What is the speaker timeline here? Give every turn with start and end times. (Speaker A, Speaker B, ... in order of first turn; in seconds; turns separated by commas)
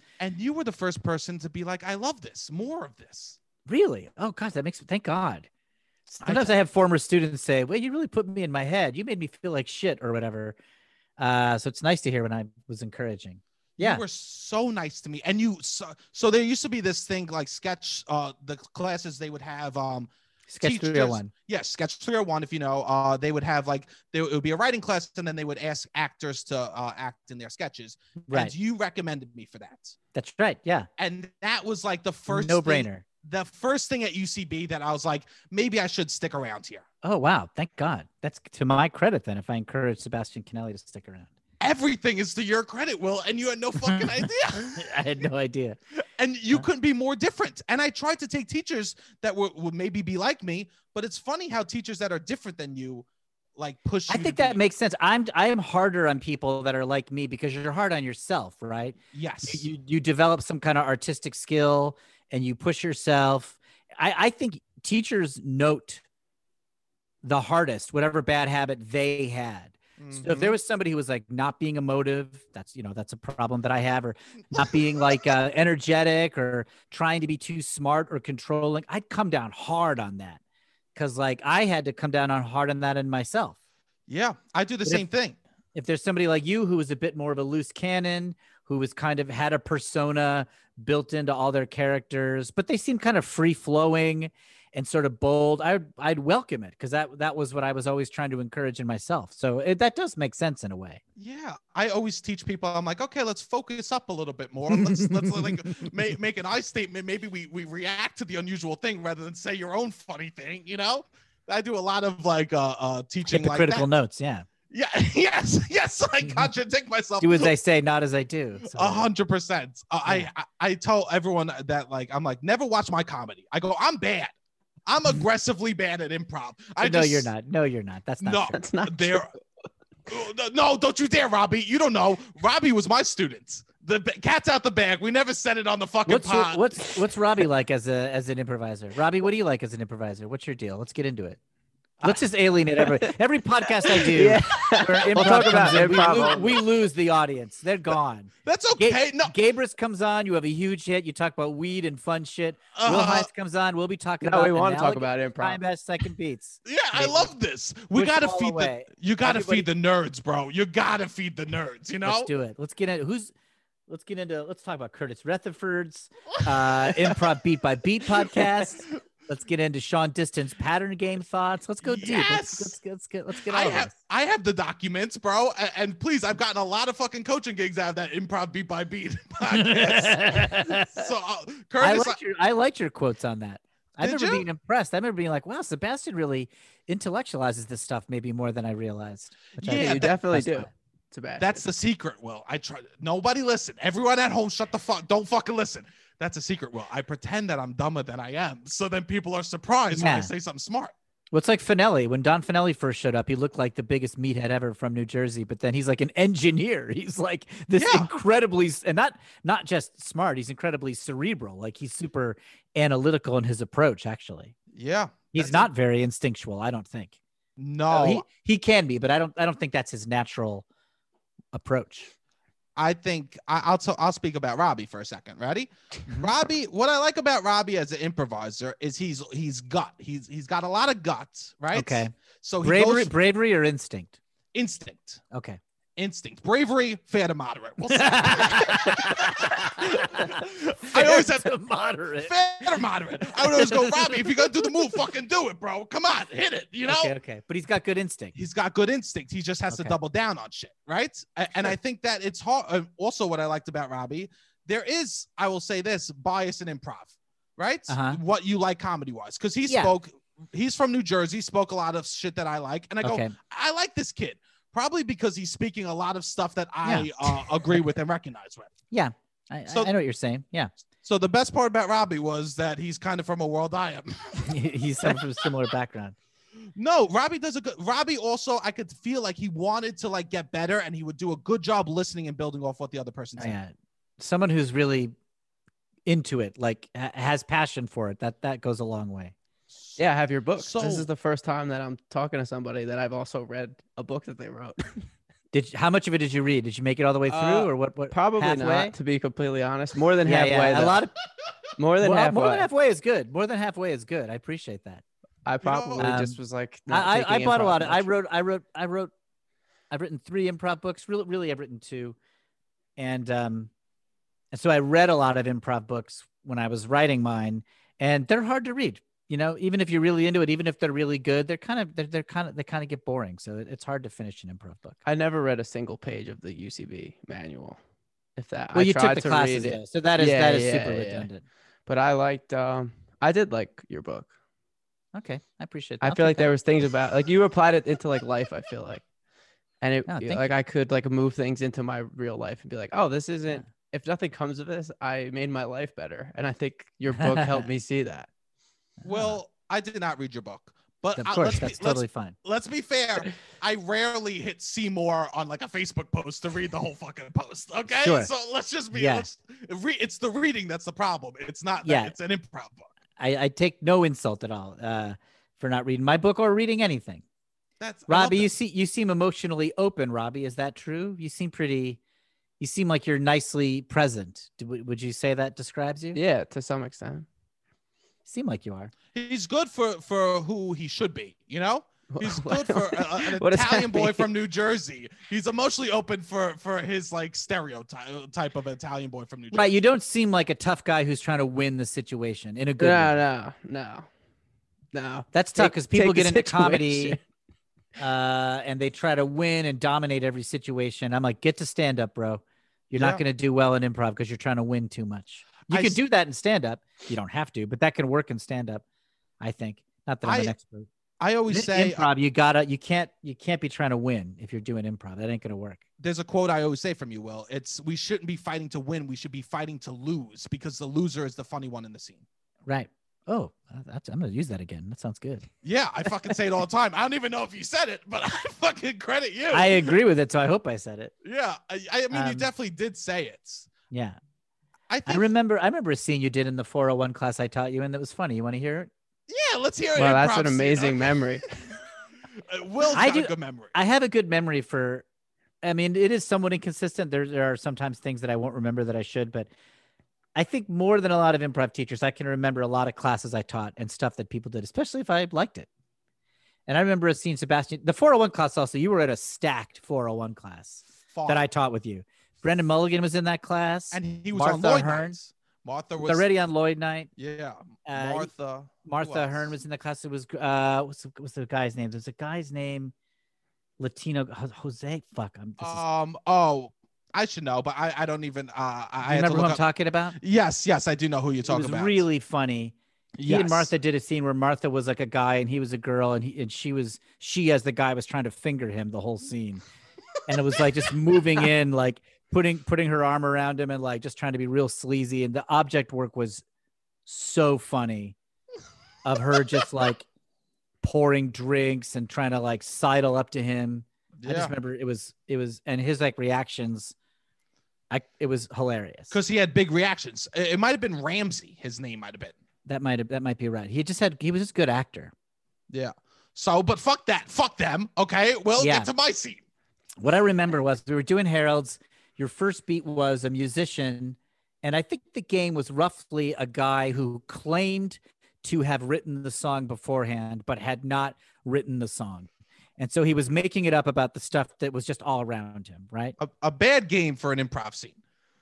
Speaker A: 0.2-3.4, Speaker B: 3.6-5.5, Speaker B: 6.1-10.6, Speaker A: 6.2-6.5, Speaker B: 11.2-14.0, Speaker A: 13.8-20.1, Speaker B: 20.5-21.3, Speaker A: 20.6-30.0, Speaker B: 28.2-28.5, Speaker B: 30.1-30.9, Speaker A: 31.0-36.8, Speaker B: 32.3-33.0, Speaker B: 37.0-41.3, Speaker A: 41.6-44.9, Speaker B: 43.8-45.8, Speaker A: 46.2-54.6, Speaker B: 54.1-66.0, Speaker A: 59.1-59.7, Speaker B: 67.2-80.4, Speaker A: 70.0-70.6, Speaker B: 80.9-83.5, Speaker A: 84.1-85.4, Speaker B: 85.7-101.0, Speaker A: 101.2-113.9, Speaker B: 104.7-105.9, Speaker B: 113.3-114.5, Speaker A: 114.7-117.5, Speaker B: 117.2-119.1, Speaker A: 118.6-124.3, Speaker A: 124.9-127.3, Speaker B: 126.8-128.6, Speaker A: 128.2-129.3, Speaker C: 128.5-129.3, Speaker A: 130.1-136.6, Speaker B: 136.1-141.4, Speaker B: 142.0-157.3, Speaker C: 142.8-143.1, Speaker C: 143.8-146.6, Speaker A: 148.4-149.3, Speaker A: 152.7-153.3, Speaker C: 154.2-155.6, Speaker A: 156.6-162.3, Speaker B: 157.9-159.7, Speaker B: 162.0-163.3, Speaker B: 163.9-173.9, Speaker A: 166.6-167.2, Speaker A: 168.2-168.7, Speaker A: 171.8-172.8, Speaker A: 173.4-182.2, Speaker B: 179.5-181.1, Speaker B: 181.8-190.7, Speaker A: 184.0-184.5, Speaker A: 189.6-190.1, Speaker C: 189.6-191.6, Speaker A: 191.4-200.9, Speaker B: 199.9-200.3, Speaker B: 201.3-214.5, Speaker A: 207.8-208.1, Speaker A: 214.7-215.7, Speaker B: 215.3-217.1, Speaker A: 217.6-218.2, Speaker B: 217.9-220.7, Speaker B: 221.5-222.1, Speaker A: 222.8-233.1, Speaker B: 226.1-226.3, Speaker B: 231.7-234.2, Speaker A: 234.5-235.2, Speaker B: 235.3-235.6, Speaker A: 236.0-241.6, Speaker B: 237.9-242.8, Speaker A: 242.2-247.1, Speaker B: 243.3-244.7, Speaker B: 246.8-248.3, Speaker A: 248.3-268.7, Speaker B: 249.7-249.9, Speaker B: 257.9-258.2, Speaker B: 259.7-259.9, Speaker B: 263.0-263.3, Speaker B: 266.8-267.5, Speaker B: 268.9-270.7, Speaker A: 271.0-274.5, Speaker B: 274.4-276.1, Speaker A: 276.8-283.6, Speaker B: 283.4-285.1, Speaker B: 286.1-289.3, Speaker C: 290.0-295.1, Speaker A: 290.6-291.1, Speaker B: 295.5-298.9, Speaker A: 297.3-297.6, Speaker C: 298.1-301.0, Speaker B: 300.2-301.2, Speaker C: 301.8-302.7, Speaker B: 302.0-305.0, Speaker C: 305.4-308.1, Speaker A: 305.6-306.1, Speaker B: 306.0-306.4, Speaker B: 306.9-309.1, Speaker B: 309.9-312.1, Speaker B: 313.0-313.7, Speaker B: 314.5-325.0, Speaker C: 325.0-327.8, Speaker C: 328.4-331.3, Speaker B: 328.7-331.4, Speaker C: 331.9-334.3, Speaker B: 335.1-336.5, Speaker C: 336.0-339.0, Speaker C: 339.8-348.3, Speaker B: 340.1-340.5, Speaker B: 347.3-347.6, Speaker B: 349.0-349.4, Speaker A: 349.0-362.9, Speaker B: 351.1-352.4, Speaker B: 357.9-358.3, Speaker B: 358.9-359.2, Speaker B: 361.8-362.1, Speaker B: 363.2-367.2, Speaker A: 367.8-368.5, Speaker B: 368.1-372.0, Speaker B: 372.6-376.2, Speaker C: 376.1-377.2, Speaker B: 378.2-378.9, Speaker A: 379.1-389.7, Speaker C: 382.1-384.3, Speaker B: 389.5-393.1, Speaker C: 392.8-394.1, Speaker C: 394.9-397.2, Speaker B: 395.3-397.2, Speaker B: 398.0-408.8, Speaker A: 402.9-403.2, Speaker A: 405.7-406.0, Speaker B: 409.4-410.9, Speaker A: 410.2-410.5, Speaker A: 411.2-412.1, Speaker B: 411.5-415.8, Speaker A: 416.0-422.2, Speaker B: 422.6-425.5, Speaker A: 425.6-429.9, Speaker B: 429.5-431.1, Speaker A: 431.2-433.7, Speaker B: 432.1-432.5, Speaker B: 433.9-434.2, Speaker A: 434.9-435.3, Speaker B: 435.1-438.9, Speaker A: 439.3-441.2, Speaker C: 440.0-441.5, Speaker A: 442.5-443.7, Speaker B: 442.9-445.0, Speaker B: 445.6-449.5, Speaker B: 450.4-455.7, Speaker B: 456.7-465.2, Speaker A: 461.1-461.5, Speaker A: 463.9-466.2, Speaker B: 466.0-467.1, Speaker A: 467.2-469.5, Speaker B: 467.9-468.3, Speaker B: 468.8-472.9, Speaker B: 473.8-475.8, Speaker A: 475.6-479.6, Speaker B: 479.0-480.2, Speaker A: 480.2-482.0, Speaker B: 481.5-489.6, Speaker A: 483.2-483.7, Speaker B: 490.3-496.4, Speaker B: 497.1-498.1, Speaker B: 499.0-500.1, Speaker B: 500.8-506.9, Speaker A: 504.2-504.5, Speaker B: 507.9-509.1, Speaker A: 509.1-512.3, Speaker B: 512.6-515.1, Speaker A: 515.7-519.4, Speaker B: 518.6-518.9, Speaker B: 520.0-536.2, Speaker A: 536.2-538.0